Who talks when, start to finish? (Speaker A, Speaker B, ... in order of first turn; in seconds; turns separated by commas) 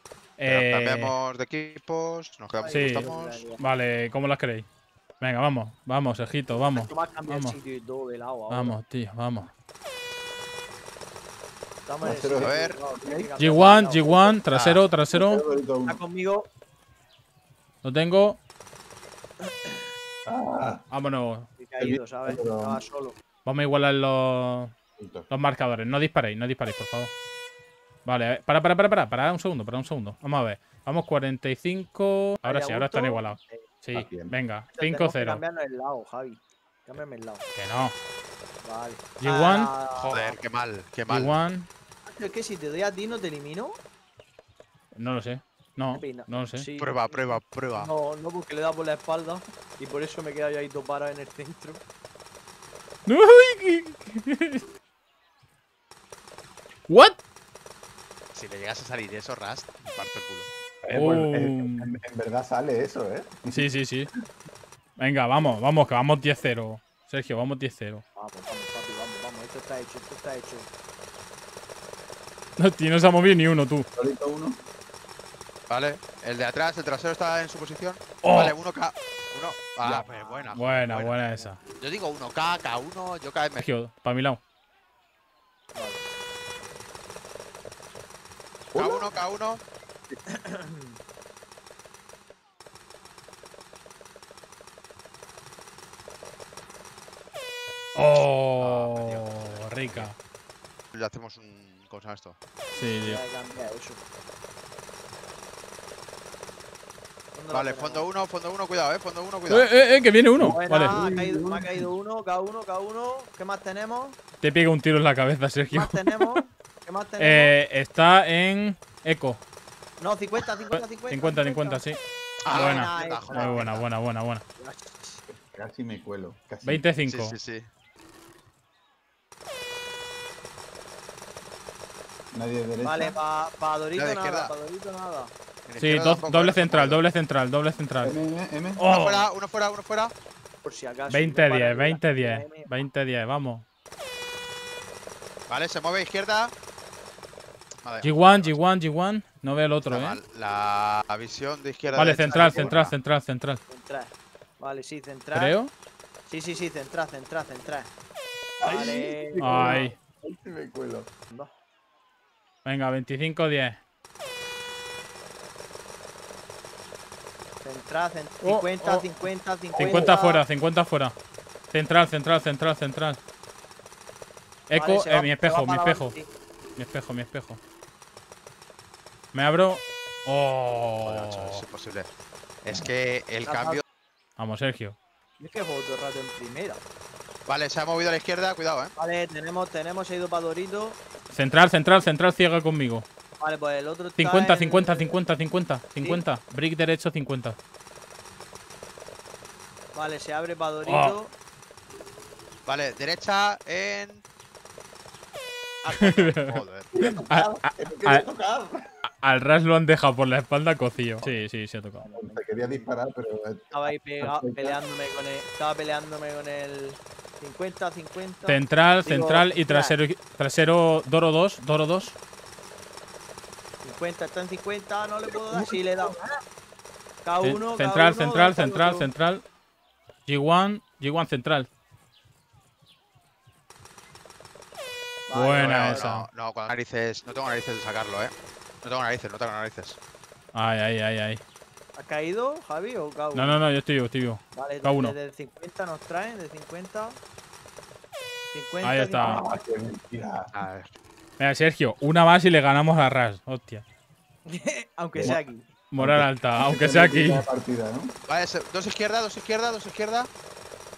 Speaker A: 0.4-1.1, Speaker B: 0.5-3.5, Speaker C: 2.5-3.6, Speaker A: 2.7-4.7, Speaker A: 5.2-7.5, Speaker C: 6.7-8.8, Speaker A: 8.5-9.5, Speaker C: 11.9-14.4, Speaker D: 12.0-13.7, Speaker B: 12.4-12.8, Speaker A: 13.4-15.4, Speaker B: 14.5-14.8, Speaker D: 15.1-16.0, Speaker C: 15.8-16.5, Speaker A: 17.8-18.4, Speaker C: 19.4-19.9, Speaker D: 20.2-20.9, Speaker A: 20.9-21.5, Speaker C: 21.6-23.2, Speaker D: 21.8-22.8, Speaker A: 23.4-24.7, Speaker D: 25.0-25.3, Speaker A: 25.3-27.1, Speaker A: 28.0-35.4, Speaker C: 32.4-33.7, Speaker D: 33.9-34.3, Speaker C: 34.7-37.5, Speaker A: 37.5-37.9, Speaker C: 38.6-40.4, Speaker A: 39.2-40.2, Speaker B: 40.0-41.4, Speaker A: 41.1-41.7, Speaker C: 42.0-43.8, Speaker A: 44.9-46.7, Speaker C: 45.9-51.8, Speaker B: 46.8-47.9, Speaker A: 53.0-54.6, Speaker A: 56.9-57.2, Speaker B: 58.3-60.5, Speaker D: 60.8-63.7, Speaker A: 60.9-61.9, Speaker A: 63.5-64.1, Speaker A: 65.0-68.0, Speaker C: 68.2-70.7, Speaker A: 72.6-73.9, Speaker D: 74.0-74.6, Speaker B: 75.7-81.2, Speaker A: 78.2-78.5, Speaker D: 79.8-80.1, Speaker C: 80.1-81.5, Speaker A: 80.5-81.6, Speaker B: 81.8-83.6, Speaker A: 83.6-84.4, Speaker C: 85.7-86.1, Speaker D: 88.7-89.2, Speaker B: 88.7-89.6, Speaker C: 90.4-91.0, Speaker A: 97.9-100.2, Speaker B: 98.2-100.1, Speaker B: 100.9-102.4, Speaker A: 102.7-103.2, Speaker C: 103.0-104.0, Speaker C: 107.3-108.1, Speaker B: 107.5-109.7, Speaker A: 109.5-110.9, Speaker D: 110.4-111.9, Speaker C: 110.4-114.2, Speaker A: 114.4-116.4, Speaker C: 115.7-117.5, Speaker A: 117.2-119.4, Speaker C: 120.0-121.8, Speaker A: 120.7-124.4, Speaker B: 122.4-123.8, Speaker C: 122.5-123.8, Speaker C: 124.6-125.2, Speaker D: 125.3-126.8, Speaker A: 126.6-127.3, Speaker B: 127.0-127.7, Speaker D: 132.3-133.1, Speaker C: 132.8-135.3, Speaker B: 133.9-134.5, Speaker B: 135.7-137.0, Speaker A: 135.8-138.2, Speaker D: 138.0-138.8, Speaker A: 138.8-139.3, Speaker B: 138.9-140.1, Speaker C: 140.6-142.7, Speaker A: 141.1-143.6, Speaker B: 145.5-146.5, Speaker B: 147.8-148.6, Speaker A: 148.0-150.2, Speaker B: 149.9-152.9, Speaker C: 151.9-152.7, Speaker A: 151.9-153.6, Speaker C: 153.7-155.6, Speaker A: 155.3-155.7, Speaker C: 156.3-157.9, Speaker D: 158.6-161.1, Speaker C: 158.6-159.8, Speaker A: 159.4-160.0, Speaker A: 162.6-163.8, Speaker C: 167.6-170.4, Speaker A: 168.4-169.2, Speaker D: 169.7-170.2, Speaker A: 169.8-171.2, Speaker A: 171.7-173.2, Speaker A: 174.7-176.1, Speaker C: 174.8-176.3, Speaker A: 176.8-177.6, Speaker A: 179.3-181.6, Speaker B: 181.0-182.1, Speaker B: 182.6-183.8, Speaker C: 183.4-183.8, Speaker A: 184.4-185.0, Speaker C: 185.4-186.8, Speaker B: 187.4-188.9, Speaker C: 189.0-191.0, Speaker A: 191.3-193.1, Speaker C: 193.4-195.2, Speaker A: 194.2-197.6, Speaker C: 199.9-201.3, Speaker A: 200.8-201.2, Speaker B: 202.7-204.2, Speaker B: 205.8-206.9, Speaker A: 205.9-206.6, Speaker D: 206.9-208.8, Speaker A: 207.3-208.2, Speaker A: 209.0-212.1, Speaker C: 212.0-212.8, Speaker D: 212.1-214.8, Speaker C: 213.7-220.0, Speaker A: 218.5-222.2, Speaker C: 223.8-226.2, Speaker D: 225.4-226.1, Speaker C: 227.2-229.1, Speaker A: 227.4-229.4, Speaker A: 230.2-231.7, Speaker C: 235.3-236.1, Speaker A: 235.3-236.3, Speaker B: 235.6-240.0, Speaker A: 240.5-241.4, Speaker C: 242.0-243.6, Speaker A: 243.3-245.1, Speaker C: 244.5-247.2, Speaker C: 248.5-249.4, Speaker A: 248.8-249.4, Speaker D: 249.2-250.5, Speaker B: 250.5-250.9, Speaker A: 251.4-253.8, Speaker C: 254.5-255.7, Speaker D: 255.1-255.4, Speaker A: 255.9-257.4, Speaker D: 256.0-258.1, Speaker B: 258.3-260.3